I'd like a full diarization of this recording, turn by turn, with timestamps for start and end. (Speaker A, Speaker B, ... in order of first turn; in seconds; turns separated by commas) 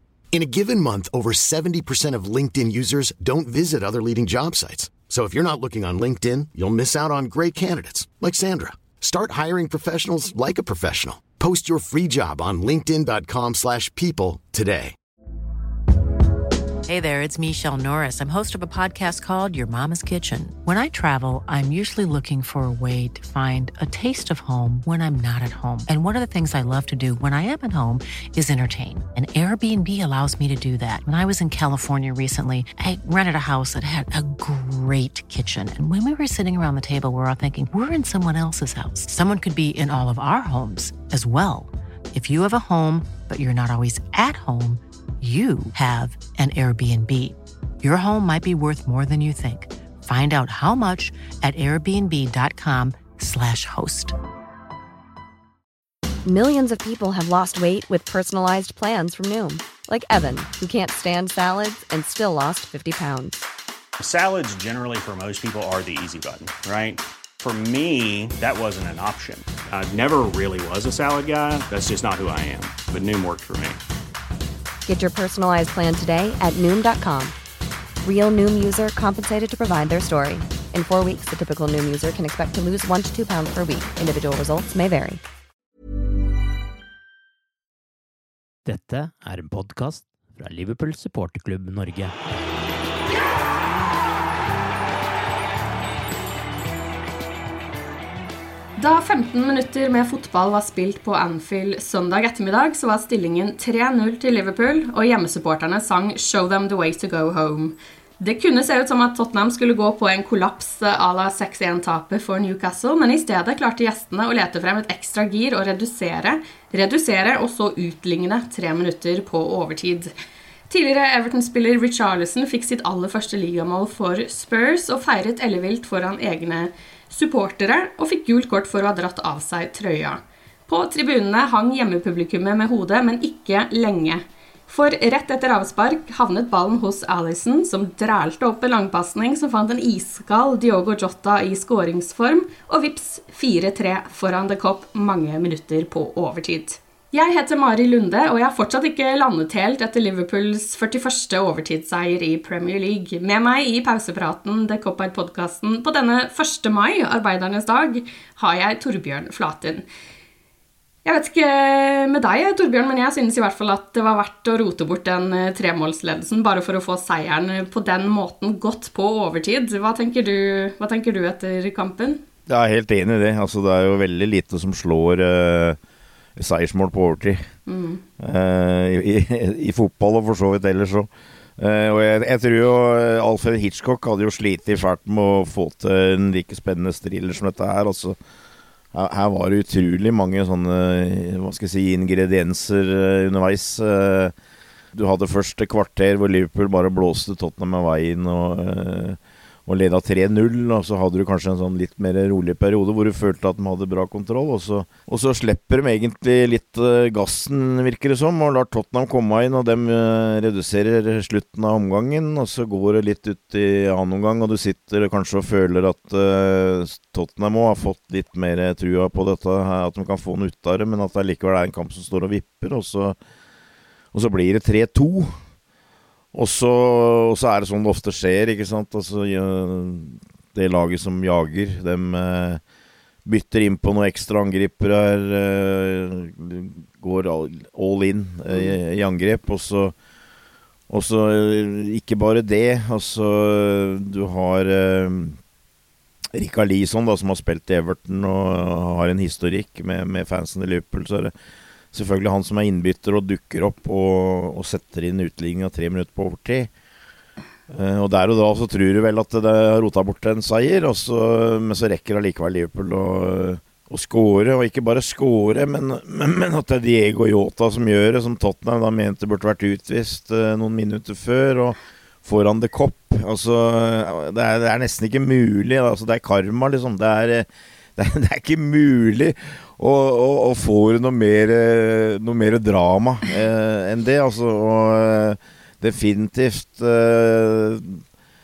Speaker A: 0.3-14.9, Speaker B: 16.9-54.1, Speaker C: 56.2-63.4, Speaker D: 64.0-73.8, Speaker C: 74.8-77.3, Speaker C: 78.0-85.2, Speaker E: 88.7-92.1, Speaker F: 98.8-120.1, Speaker F: 120.7-159.8, Speaker F: 161.0-172.2, Speaker G: 172.5-175.8, Speaker G: 176.3-177.4, Speaker F: 177.7-178.0, Speaker G: 178.2-188.2, Speaker G: 188.9-194.3, Speaker G: 194.9-223.2, Speaker G: 224.1-225.4, Speaker G: 226.3-232.6, Speaker G: 233.2-239.9, Speaker F: 238.5-238.8, Speaker G: 240.9-245.4, Speaker G: 246.3-251.3, Speaker G: 251.9-256.7, Speaker G: 257.7-288.0